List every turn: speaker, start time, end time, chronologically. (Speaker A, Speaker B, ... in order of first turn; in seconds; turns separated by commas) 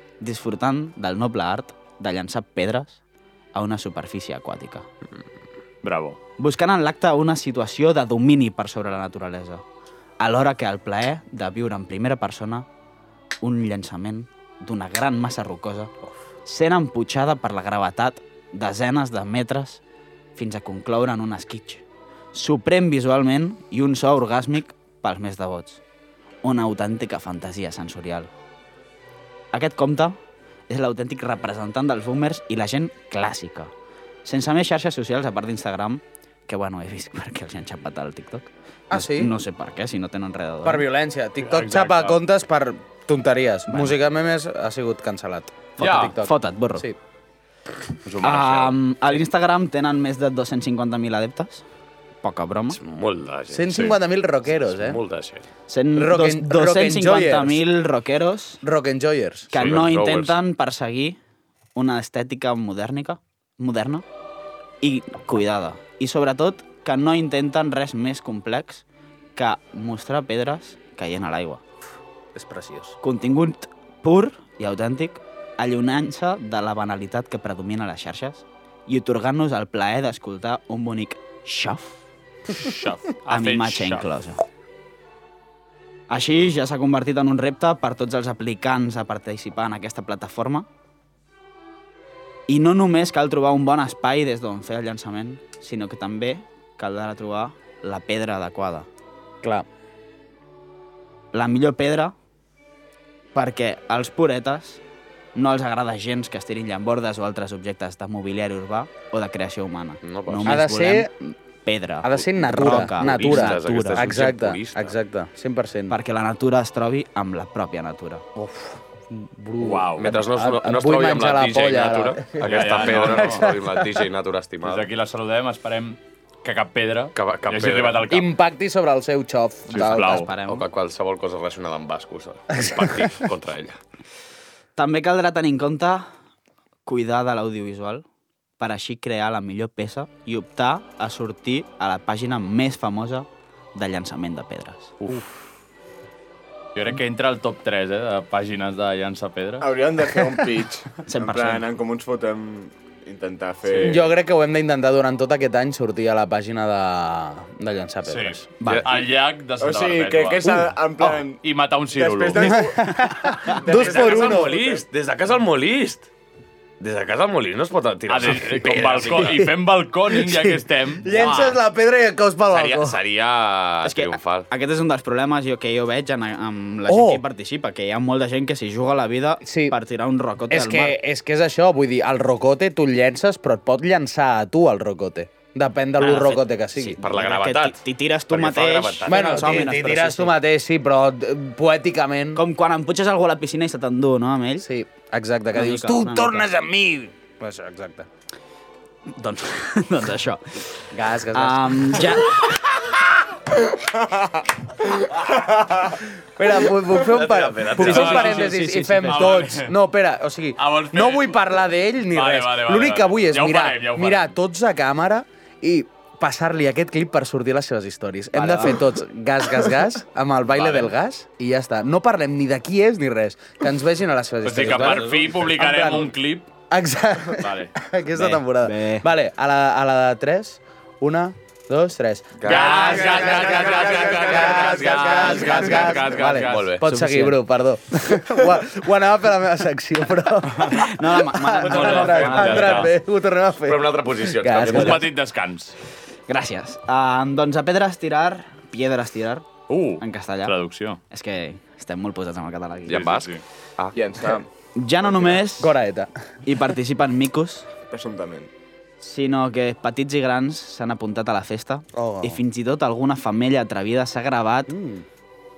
Speaker A: 0.2-3.0, Speaker A: 3.5-4.9, Speaker B: 5.8-6.2, Speaker A: 6.4-9.6, Speaker A: 10.2-12.7, Speaker A: 13.4-15.9, Speaker A: 16.4-19.8, Speaker A: 20.4-25.8, Speaker A: 26.4-28.3, Speaker A: 29.5-30.2, Speaker A: 30.7-33.7, Speaker A: 34.2-40.9, Speaker C: 38.9-39.4, Speaker C: 40.6-47.0, Speaker B: 41.4-42.2, Speaker A: 43.7-44.0, Speaker B: 45.8-46.2, Speaker A: 45.8-46.9, Speaker B: 48.0-48.8, Speaker A: 48.2-51.6, Speaker A: 52.2-52.8, Speaker D: 52.7-54.0, Speaker C: 53.5-55.0, Speaker D: 54.5-55.5, Speaker A: 55.7-58.6, Speaker C: 55.9-57.6, Speaker C: 58.6-59.5, Speaker A: 59.5-61.2, Speaker D: 59.5-60.4, Speaker A: 61.8-64.0, Speaker A: 64.8-68.8, Speaker A: 69.4-71.6, Speaker C: 72.3-73.0, Speaker A: 73.0-82.0, Speaker B: 82.5-84.1, Speaker A: 83.3-84.4, Speaker A: 86.1-90.7, Speaker A: 92.5-98.9, Speaker A: 101.3-102.1, Speaker A: 103.3-104.8, Speaker A: 105.3-111.1, Speaker D: 110.0-110.6, Speaker C: 110.5-111.1, Speaker A: 111.7-114.2, Speaker C: 112.0-116.0, Speaker D: 112.5-115.0, Speaker A: 115.9-118.2, Speaker C: 118.4-123.9, Speaker B: 119.6-120.1, Speaker D: 120.0-124.9, Speaker B: 122.4-123.5, Speaker B: 124.6-128.3, Speaker D: 127.2-128.1, Speaker C: 128.1-130.2, Speaker B: 129.7-130.3, Speaker A: 129.9-130.7, Speaker D: 130.5-133.8, Speaker C: 132.6-132.9, Speaker A: 134.8-136.1, Speaker A: 136.9-138.1, Speaker A: 138.6-144.9, Speaker B: 145.0-145.3, Speaker B: 146.8-149.7, Speaker E: 149.6-154.0, Speaker A: 151.1-151.7, Speaker B: 153.7-154.0, Speaker C: 153.8-158.5, Speaker B: 158.1-162.6, Speaker A: 158.6-158.9, Speaker E: 159.6-161.4, Speaker E: 161.9-164.7, Speaker C: 162.4-164.7, Speaker D: 163.6-166.1, Speaker D: 166.8-169.4, Speaker B: 168.1-171.6, Speaker C: 169.1-169.5, Speaker C: 170.1-173.0, Speaker D: 172.5-174.5, Speaker A: 173.8-181.0, Speaker C: 176.9-177.2, Speaker C: 179.4-179.8, Speaker C: 180.5-187.0, Speaker A: 186.0-190.3, Speaker D: 187.0-189.7, Speaker C: 189.1-192.4, Speaker A: 192.4-194.7, Speaker C: 194.6-198.1, Speaker A: 195.5-196.5, Speaker A: 199.1-202.5, Speaker C: 200.9-202.2, Speaker C: 206.4-226.1, Speaker D: 206.9-208.4, Speaker A: 207.8-209.4, Speaker B: 207.8-208.5, Speaker B: 209.1-209.7, Speaker B: 210.6-211.4, Speaker B: 212.1-214.3, Speaker A: 218.3-218.8, Speaker B: 220.6-220.9, Speaker B: 224.4-226.5, Speaker D: 224.6-225.2, Speaker C: 226.7-245.1, Speaker B: 227.3-227.7, Speaker A: 228.1-229.1, Speaker D: 232.4-236.8, Speaker B: 232.4-236.8, Speaker E: 233.3-233.8, Speaker A: 236.8-237.4, Speaker A: 240.7-242.9, Speaker D: 241.7-242.7, Speaker B: 241.7-242.9, Speaker D: 243.7-245.1, Speaker B: 244.7-245.8, Speaker A: 246.3-249.4, Speaker B: 249.7-251.0, Speaker A: 250.0-250.6, Speaker A: 251.1-253.2, Speaker D: 252.9-253.9, Speaker B: 252.9-253.4, Speaker E: 253.9-254.5, Speaker A: 254.8-255.7, Speaker C: 255.6-256.1, Speaker A: 256.4-257.7, Speaker E: 257.9-258.5, Speaker A: 259.0-264.7, Speaker C: 261.9-262.4, Speaker C: 264.7-265.1